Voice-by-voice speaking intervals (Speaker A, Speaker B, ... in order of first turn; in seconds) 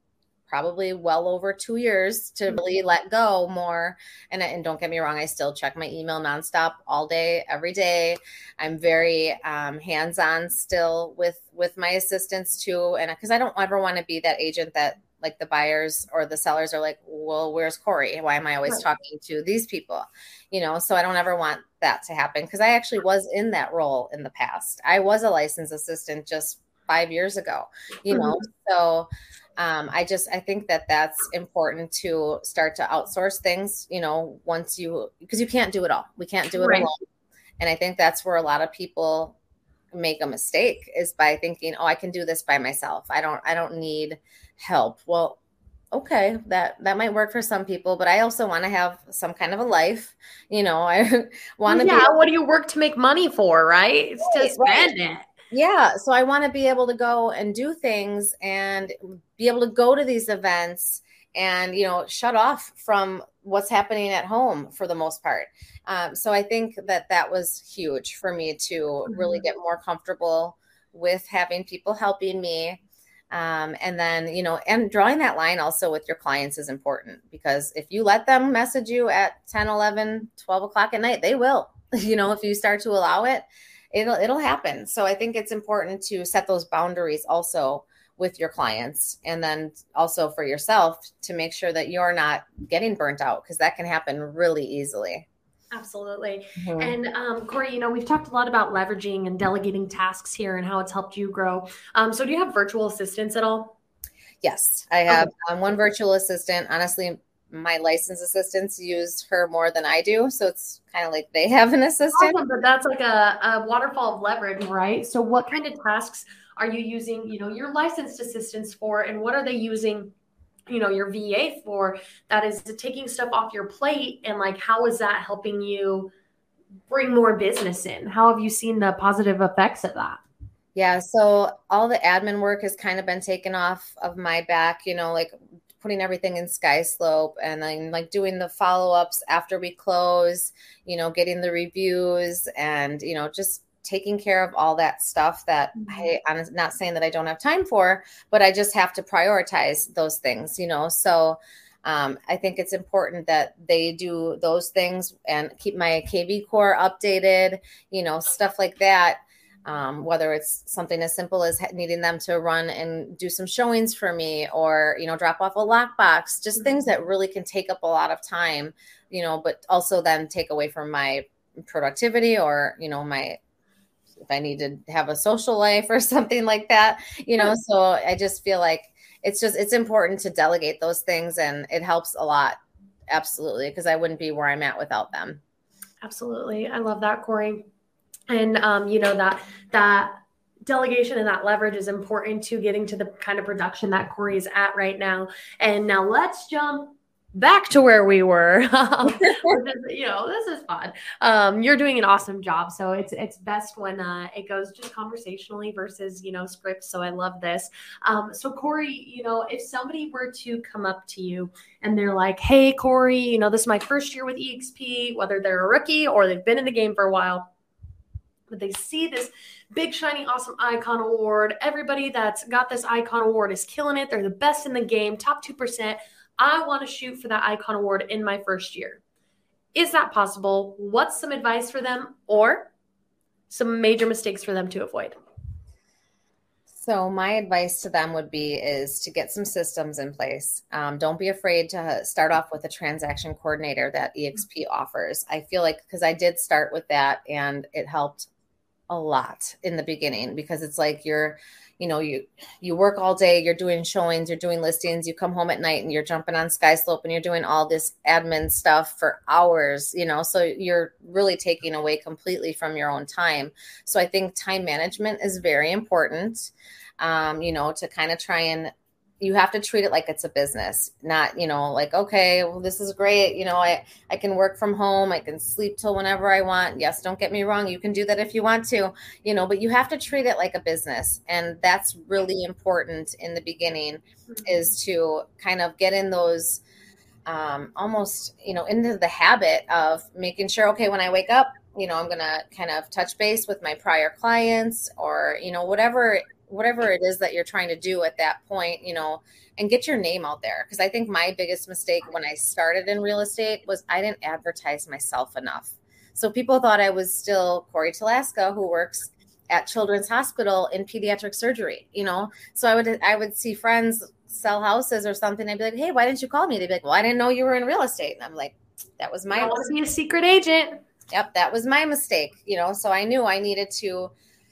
Speaker A: 0.5-37.0, 37.6-39.4, 39.9-45.4, 45.9-52.1, 54.2-54.9, 55.5-72.8, 73.3-95.3, 96.6-97.0, 104.4-112.4, 130.8-173.4, 174.3-182.6, 183.1-185.4, 236.7-248.3, 248.9-286.6, 287.3-319.7, 321.1-324.1
Speaker B: 28.1-28.4, 36.6-36.9, 51.7-55.3, 69.1-69.5, 95.7-103.8, 112.1-120.1, 120.7-126.1, 126.9-130.2, 145.8-146.1, 186.0-187.7, 188.3-190.1, 190.7-217.5, 218.5-229.0, 229.7-232.7, 233.5-235.2, 319.3-320.8